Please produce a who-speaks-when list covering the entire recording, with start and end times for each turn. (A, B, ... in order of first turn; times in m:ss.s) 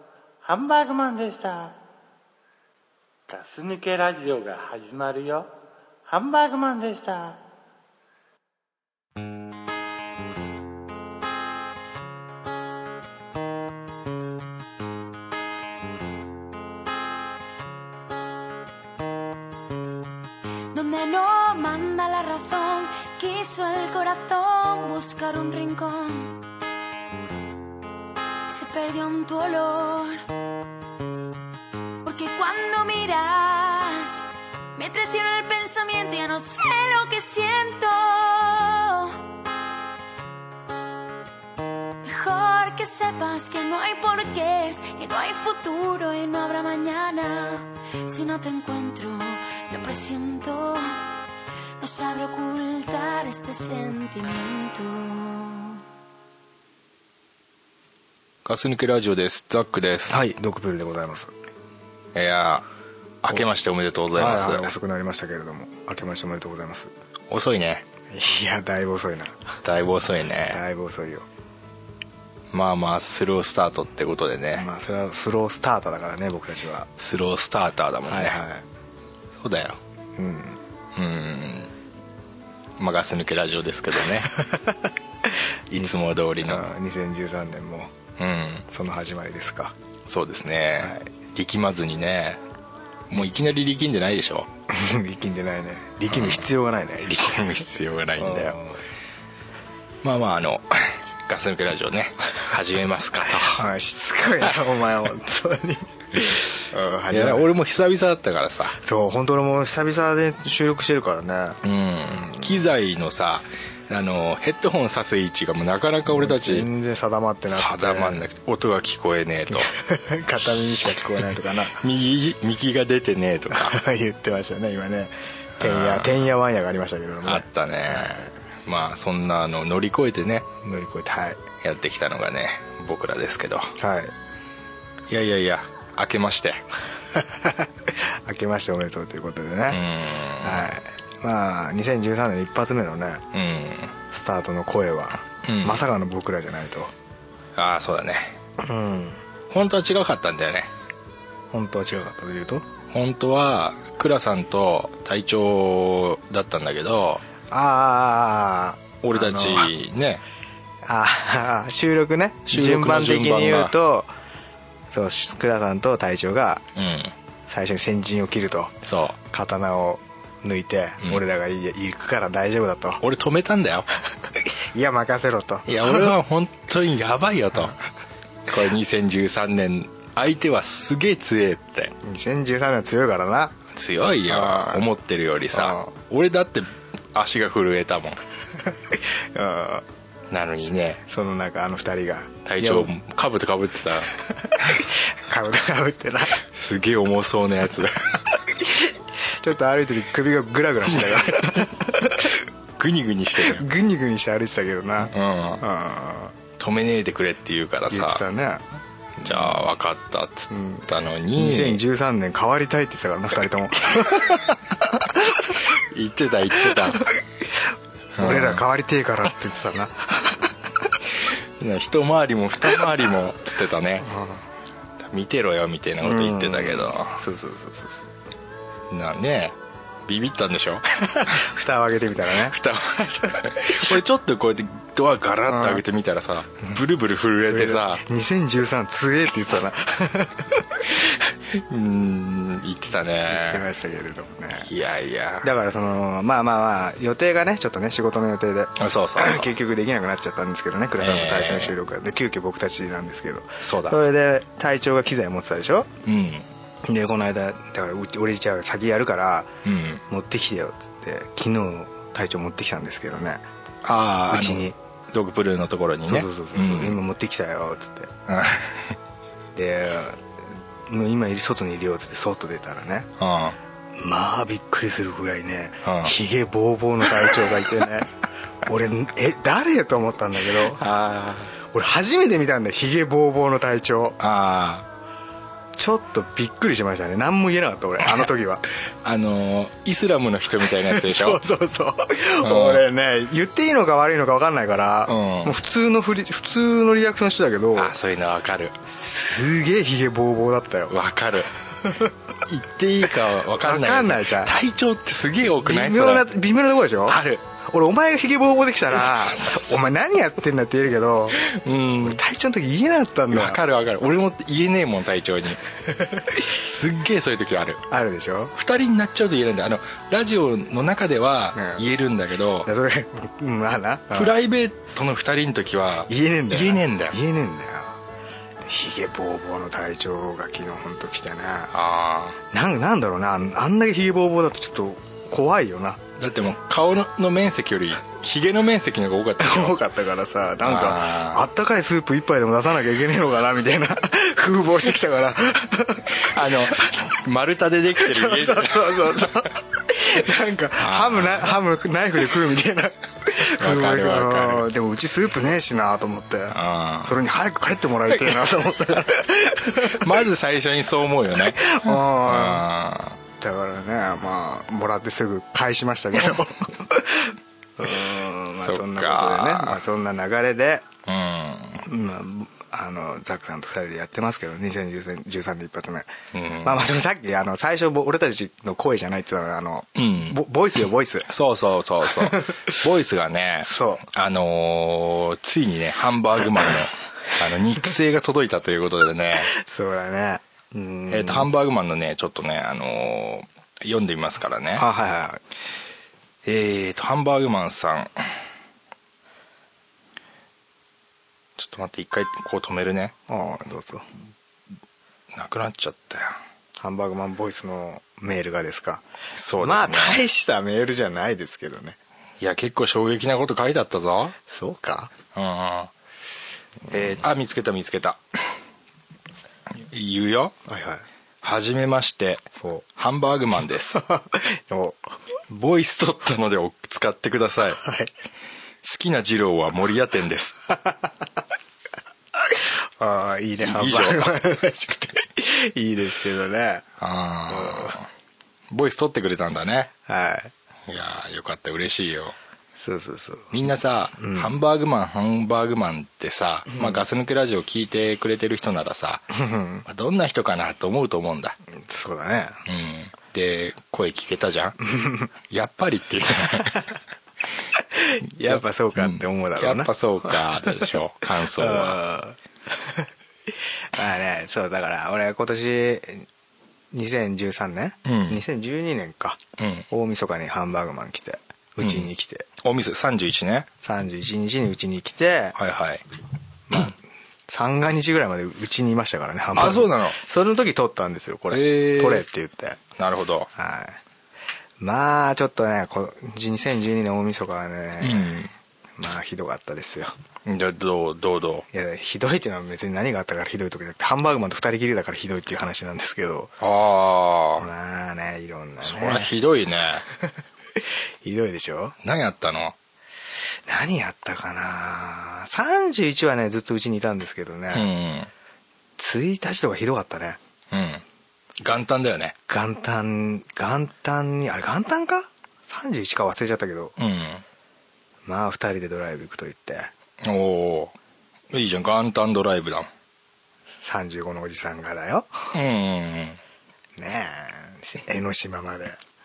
0:00.4-0:01.8 A
0:03.3-0:05.5 A
0:06.1-0:07.4 A
0:20.7-0:26.4 B
0:28.5-0:30.2 B
0:32.0-0:39.2 B
0:42.0-0:51.0 B
0:51.8-0:55.8 B
0:58.4-1:00.3 C
1:00.1-1:01.3 D
1:02.1-1:02.6 C
1:03.2-1:04.7 C
1:04.1-1:06.9 D
1:07.3-1:07.8 C
1:08.1-1:09.5 D
1:09.6-1:10.6 C
1:10.5-1:11.2 D
1:12.5-1:14.7 C
1:14.5-1:16.9 D
1:17.0-1:18.4 C
1:18.1-1:18.6 D
1:19.3-1:19.8 C
1:20.2-1:20.6 D
1:20.9-1:21.7 C
1:22.8-1:24.3 C
1:24.4-1:24.8 D
1:25.7-1:26.7 C
1:25.7-1:27.9 D
1:28.2-1:28.6 C
1:28.7-1:29.7 D
1:30.1-1:32.4 C
1:30.8-1:31.1 D
1:33.1-1:34.5 C
1:34.7-1:37.5 D
1:36.1-1:36.4 C
1:37.0-1:38.6 C
1:38.2-1:38.8 D
1:40.0-1:43.6 C
1:43.4-1:47.5 D
1:47.1-1:48.8 C
1:48.8-1:52.6 D
1:51.6-1:56.7 C
1:56.1-1:58.2 D
1:57.5-1:59.7 C
1:59.5-2:01.8 D
2:00.4-2:01.2 C
2:01.8-2:03.8 C
2:03.5-2:08.3 D
2:05.6-2:06.2 C
2:07.2-2:10.5 C
2:10.6-2:11.4 D
2:11.6-2:13.7 C
2:13.8-2:14.1 D
2:15.1-2:16.6 C
2:17.2-2:19.8 D
2:19.7-2:20.7 C
2:20.4-2:23.2 D
2:23.3-2:23.9 C
2:24.1-2:26.9 D
2:25.4-2:25.9 C
2:27.5-2:28.4 C
2:28.6-2:29.2 D
2:29.5-2:30.7 C
2:31.5-2:32.6 D
2:32.9-2:37.2 C
2:37.5-2:39.7 D
2:39.0-2:40.2 C
2:40.8-2:44.1 D
2:42.5-2:43.7 C
2:44.9-2:46.6 D
2:46.7-2:47.1 C
2:47.5-2:48.8 D
2:48.8-2:49.2 C
2:49.3-2:53.0 D
2:53.0-2:53.9 C
2:54.4-2:56.1 D
2:55.6-2:57.8 C
2:58.5-3:01.9 C
3:02.0-3:03.6 D
3:03.7-3:08.2 C
3:04.3-3:04.9 D
3:05.5-3:05.9 D
3:08.9-3:09.8 D
3:10.3-3:11.0 C
3:11.1-3:12.9 D
3:12.4-3:14.1 C
3:14.4-3:16.4 D
3:16.4-3:18.2 C
3:18.6-3:22.3 D
3:21.0-3:21.6 C
3:22.8-3:23.6 C
3:23.4-3:26.3 D
3:25.0-3:25.6 C
3:26.6-3:28.2 C
3:27.9-3:28.6 D
3:29.2-3:29.6 D
3:29.2-3:31.8 C
3:30.5-3:35.5 D
3:35.7-3:37.1 C
3:36.7-3:37.2 D
3:38.2-3:38.6 C
3:38.2-3:40.5 D
3:41.6-3:44.1 C
3:44.0-3:44.4 D
3:45.0-3:47.2 C
3:46.0-3:48.0 D
3:48.9-3:51.4 C
3:51.0-3:53.8 D
3:52.3-3:58.0 C
3:55.5-3:55.8 D
3:57.5-4:00.9 D
4:01.0-4:03.7 C
4:03.3-4:04.7 D
4:04.6-4:05.5 C
4:05.4-4:15.9 D
4:08.8-4:09.5 C
4:11.0-4:11.7 C
4:13.6-4:14.0 C
4:16.0-4:16.4 C
4:16.8-4:19.5 D
4:19.6-4:20.0 C
4:20.1-4:23.4 D
4:23.8-4:27.0 C
4:24.3-4:24.8 D
4:26.1-4:28.1 D
4:28.3-4:29.0 C
4:29.5-4:30.3 D
4:30.9-4:33.1 D
4:33.2-4:33.6 C
4:34.0-4:40.8 D
4:35.8-4:36.1 C
4:40.6-4:41.5 C
4:41.7-4:44.2 D
4:44.2-4:44.9 C
4:45.8-4:48.6 D
4:49.0-4:51.4 C
4:50.8-4:57.9 D
4:52.4-4:52.8 C
4:55.0-4:55.6 C
4:57.7-4:58.8 C
4:58.9-5:00.9 D
5:00.9-5:01.5 C
5:01.8-5:02.1 D
5:02.4-5:06.3 C
5:03.6-5:04.5 D
5:05.6-5:11.4 D
5:07.1-5:07.4 C
5:09.1-5:09.7 C
5:11.4-5:12.2 C
5:12.0-5:13.6 D
5:13.3-5:15.6 C
5:16.4-5:17.8 C
5:17.9-5:18.5 D
5:18.5-5:22.7 C
5:21.5-5:21.8 D
5:22.6-5:24.4 D
5:24.1-5:27.2 C
5:26.1-5:28.0 D
5:28.6-5:31.7 D
5:31.7-5:32.4 C
5:32.5-5:36.0 D
5:36.2-5:39.8 C
5:39.4-5:46.9 D
5:40.6-5:41.4 C
5:46.1-5:49.3 C
5:48.0-6:00.1 D
5:50.8-5:51.5 C
5:53.6-5:54.7 C
5:56.5-5:57.2 C
5:58.1-5:58.9 C
5:59.7-6:03.2 C
6:01.5-6:02.6 D
6:03.4-6:10.8 D
6:08.6-6:09.8 C
6:11.0-6:11.8 C
6:11.8-6:16.1 D
6:16.3-6:16.8 C
6:16.6-6:21.3 D
6:20.0-6:20.4 C
6:21.3-6:29.5 C
6:23.6-6:24.0 D
6:29.5-6:31.5 D
6:31.1-6:34.8 C
6:34.8-6:35.4 D
6:36.4-6:38.3 C
6:41.6-6:43.1 C
6:43.3-6:44.0 D
6:45.3-6:46.4 C
6:46.8-6:49.0 D
6:49.3-6:50.2 C
6:49.6-6:52.0 D
6:52.4-6:54.3 C
6:54.5-6:55.1 D
6:55.3-6:55.9 C
6:56.9-6:58.5 C
6:59.8-7:00.5 C
7:00.7-7:01.0 D
7:01.4-7:04.0 C
7:02.6-7:02.8 D
7:04.0-7:05.0 D
7:05.5-7:07.8 C
7:07.8-7:08.1 D
7:08.8-7:10.6 C
7:12.5-7:16.8 D
7:13.6-7:14.3 C
7:17.0-7:18.1 C
7:17.5-7:17.9 D
7:18.7-7:19.9 C
7:20.1-7:20.5 D
7:20.9-7:22.3 C
7:22.8-7:23.5 D
7:23.5-7:29.3 C
7:24.2-7:24.5 D
7:26.7-7:27.0 D
7:29.3-7:29.8 D
7:29.8-7:31.6 C
7:31.8-7:32.6 D
7:32.6-7:34.8 C
7:34.8-7:35.3 D
7:35.5-7:36.8 C
7:37.9-7:39.9 D
7:38.4-7:42.0 C
7:41.5-7:43.0 D
7:43.9-7:46.2 D
7:46.9-7:52.4 D
7:48.0-7:48.4 C
7:49.6-7:49.9 C
7:51.8-7:53.7 C
7:53.8-7:55.6 D
7:55.6-7:56.0 C
7:56.7-8:02.8 D
7:59.5-8:00.2 C
8:01.5-8:02.2 C
8:03.0-8:03.5 C
8:03.6-8:04.0 D
8:04.8-8:08.4 D
8:08.0-8:08.5 C
8:09.0-8:10.1 D
8:10.4-8:11.6 C
8:11.7-8:16.5 D
8:16.6-8:17.7 C
8:17.6-8:19.3 D
8:18.8-8:20.0 C
8:21.2-8:21.9 D
8:22.0-8:22.7 C
8:23.7-8:27.9 D
8:27.7-8:28.3 C
8:29.0-8:30.4 D
8:30.7-8:31.0 C
8:31.6-8:32.3 C
8:32.5-8:36.9 D
8:37.0-8:37.4 C
8:38.2-8:39.9 D
8:40.2-8:40.9 C
8:41.5-8:42.9 C
8:43.8-8:45.5 D
8:45.5-8:46.4 C
8:47.0-8:49.0 D